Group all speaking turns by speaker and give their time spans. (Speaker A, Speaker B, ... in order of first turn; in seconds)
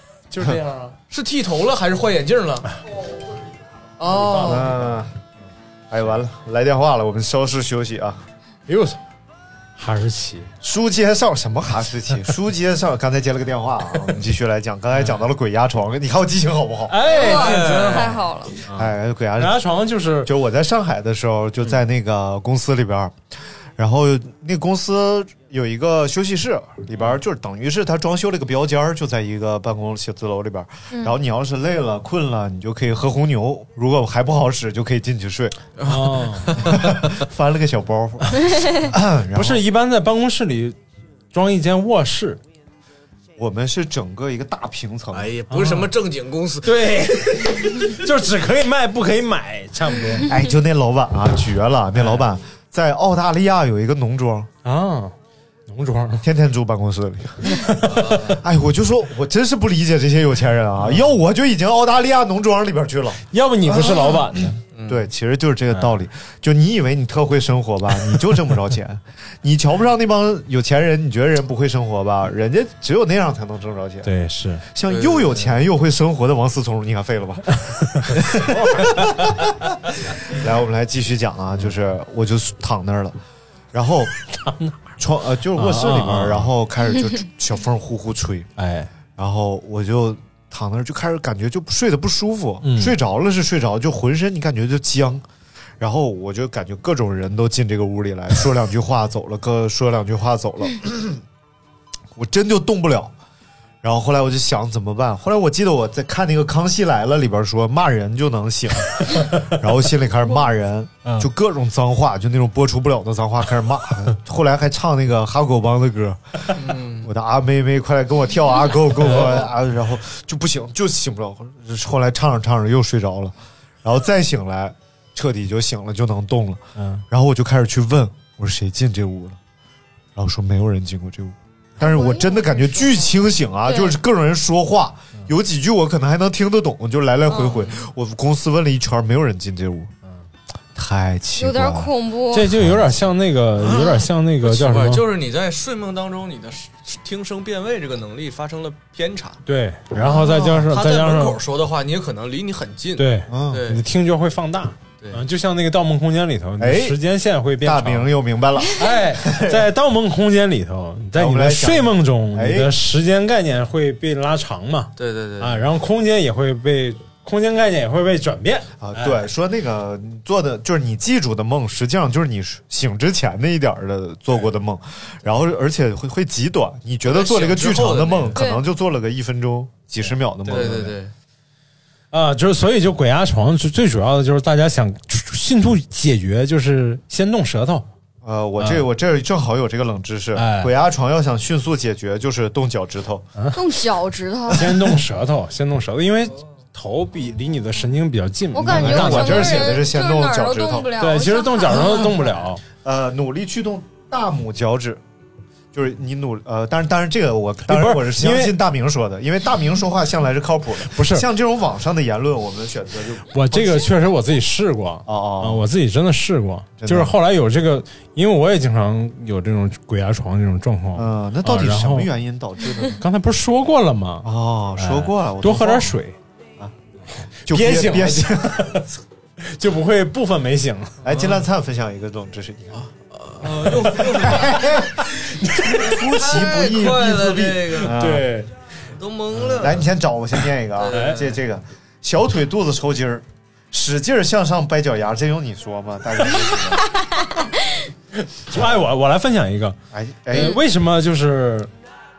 Speaker A: 0.3-1.0, 4.0-4.9, 8.7-9.0, 9.8-10.5, 16.9-20.3, 35.9-36.6, 39.4-40.8, 41.3-42.4, 45.5-45.9, 46.6-50.3, 54.6-55.1, 55.7-56.2, 57.4-58.4, 63.3-64.6, 74.0-74.6, 78.0-79.3, 84.4-84.9, 85.5-86.5, 88.6-88.9, 92.6-93.0, 119.0-119.4, 126.8-127.0, 142.3-145.0, 149.4-151.4, 153.0-158.1, 158.8-169.2, 180.5-180.7, 182.1-187.9, 188.6-188.9, 190.4-190.7, 194.5-199.8, 201.0-202.6, 207.7-208.6, 210.9-211.3, 213.3-222.1, 222.9-226.2, 227.5-228.9, 229.4-231.3, 233.4-236.3, 237.8-238.5, 240.9-241.2, 248.2-249.8, 250.3-251.7
Speaker B: 1.1-2.7, 4.0-4.7, 17.2-18.1, 35.8-37.0, 45.1-47.0, 57.9-58.4, 64.7-65.1, 74.9-75.5, 116.6-117.1, 143.8-149.4, 150.7-153.8, 165.0-165.7, 177.1-178.4, 180.5-181.1, 232.7-234.8, 235.8-238.0, 238.9-239.8, 240.8-241.4
Speaker C: 4.4-5.1, 5.9-8.2, 10.6-17.1, 18.7-19.6, 20.2-23.2, 23.8-35.6, 36.5-39.6, 43.4-45.3, 50.2-54.5, 56.2-64.2, 64.9-74.1, 74.7-83.1, 83.7-84.1, 85.0-88.5, 89.2-95.2, 95.8-101.2, 102.1-103.1, 103.8-129.4, 130.1-139.9, 140.7-141.9, 142.5-142.9, 149.9-150.7, 153.3-153.6, 156.6-157.0, 157.6-159.7, 161.1-162.7, 168.8-180.9, 188.2-193.3, 194.6-195.0, 198.6-200.9, 202.8-205.0, 205.7-213.9, 215.1-215.6, 216.8-217.2, 220.9-223.0, 224.2-225.9, 227.4-228.9, 231.0-232.9, 234.2-238.3, 239.5-246.8, 248.5-248.8, 249.9-250.6
Speaker D: 17.1-18.6, 131.8-134.0, 137.3-137.7, 141.4-142.5, 178.3-178.6, 193.5-194.7, 198.5-202.2, 246.9-247.8, 250.3-250.6